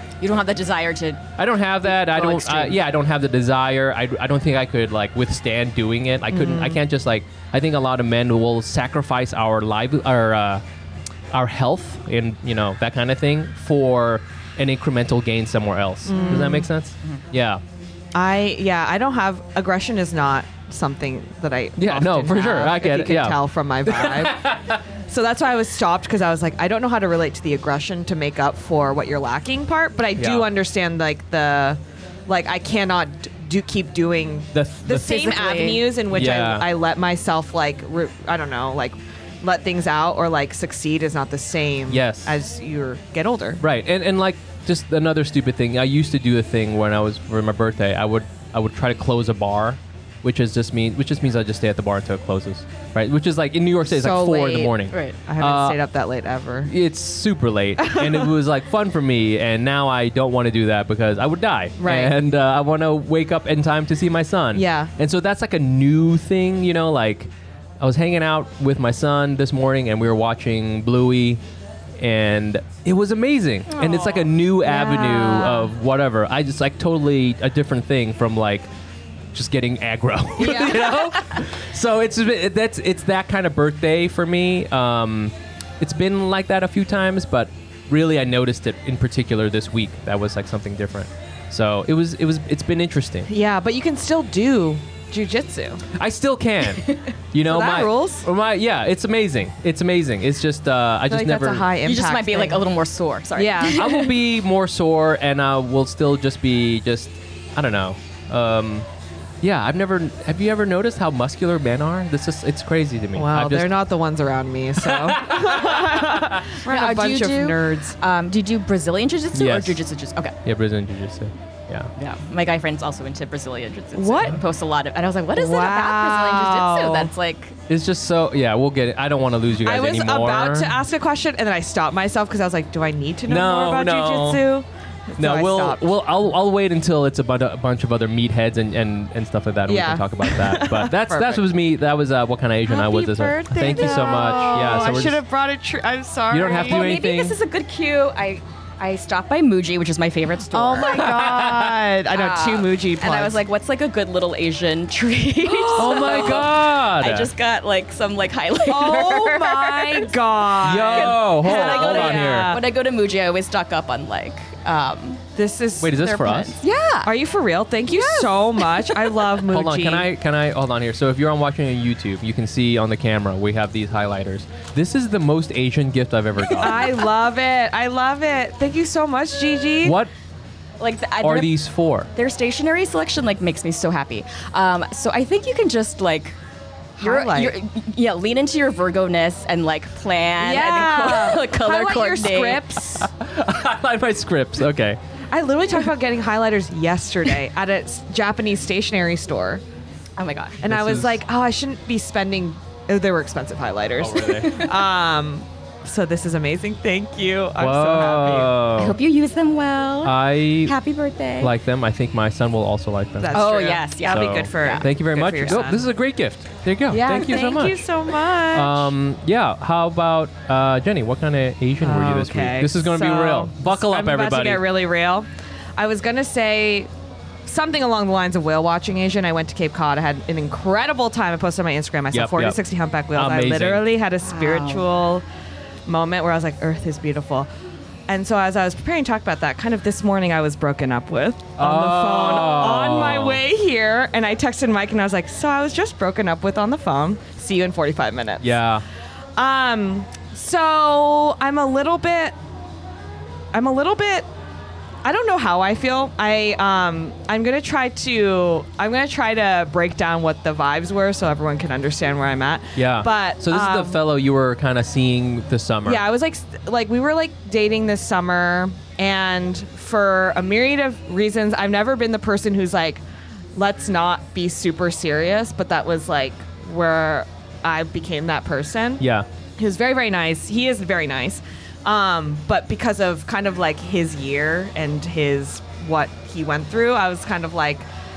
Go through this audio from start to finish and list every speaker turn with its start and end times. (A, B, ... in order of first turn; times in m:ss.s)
0:00.2-0:02.8 A
0:01.4-0:10.6 B
0:06.3-0:06.8 C
0:11.3-0:17.6 B
0:16.1-0:16.7 C
0:16.1-0:17.2 A
0:18.1-0:24.5 C
0:21.8-0:24.8 B
0:25.1-0:43.6 C
0:30.2-0:30.5 B
0:34.5-0:35.4 B
0:35.1-0:35.9 A
0:36.1-0:36.7 B
0:41.9-0:42.4 B
0:43.6-0:55.8 B
0:53.8-0:54.7 C
0:54.9-0:55.2 A
0:55.2-0:56.7 C
0:56.6-1:11.4 B
0:57.8-0:58.3 C
1:01.8-1:02.1 C
1:04.5-1:04.9 C
1:12.0-1:18.7 B
1:13.8-1:14.3 A
1:14.6-1:15.7 C
1:19.3-1:33.3 B
1:20.4-1:21.0 C
1:33.3-1:35.8 C
1:35.9-1:41.7 B
1:37.4-1:38.2 C
1:41.1-1:42.6 C
1:41.8-1:44.2 A
1:43.3-1:43.9 C
1:43.7-1:48.9 B
1:49.4-1:53.7 B
1:53.1-1:58.0 C
1:54.8-1:56.4 B
1:56.6-2:00.4 A
1:59.3-1:59.8 B
2:00.4-2:01.9 B
2:02.0-2:07.6 A
2:03.9-2:04.4 C
2:05.3-2:07.1 C
2:07.7-2:10.7 B
2:09.6-2:15.9 C
2:13.3-2:14.4 B
2:15.2-2:25.2 B
2:19.6-2:21.4 C
2:22.7-2:27.0 C
2:23.6-2:24.3 A
2:26.3-2:27.3 B
2:26.6-2:31.2 A
2:30.5-2:33.4 C
2:30.8-2:31.7 B
2:32.1-2:45.2 A
2:35.4-2:36.5 C
2:35.8-2:37.3 B
2:38.6-2:42.6 C
2:40.6-2:42.5 B
2:45.4-2:46.1 C
2:45.8-2:46.6 B
2:46.0-2:47.1 A
2:47.0-2:50.1 C
2:47.9-2:49.2 A
2:49.5-2:56.9 B
2:56.6-3:00.0 C
2:59.8-3:00.1 B
3:00.8-3:01.6 A
3:01.2-3:02.1 B
3:02.1-3:06.4 A
3:07.0-3:12.8 A
3:07.0-3:07.5 C
3:10.4-3:13.1 C
3:13.0-3:15.0 B
3:15.3-3:19.6 C
3:20.2-3:20.6 A
3:20.6-3:28.6 C
3:20.6-3:21.2 B
3:24.0-3:24.6 B
3:27.6-3:29.0 B
3:28.8-3:31.5 A
3:30.0-3:30.7 B
3:31.4-3:33.5 B
3:33.2-3:35.8 C
3:33.3-3:34.8 A
3:34.0-3:37.8 B
3:36.9-3:38.9 C
3:37.1-3:37.6 A
3:38.5-3:44.6 B
3:41.8-3:46.9 C
3:47.4-3:55.2 C
3:52.1-3:52.6 B
3:53.1-3:53.9 B
3:54.2-3:54.8 A
3:55.8-3:57.5 C
3:58.1-4:08.6 C
4:01.6-4:03.4 B
4:08.4-4:08.8 B
4:09.4-4:12.3 C
4:13.5-4:14.3 C
4:15.0-4:24.0 C
4:22.8-4:26.0 B
4:25.8-4:33.0 C
4:33.5-4:39.0 C
4:39.0-4:39.3 B
4:39.6-4:47.9 C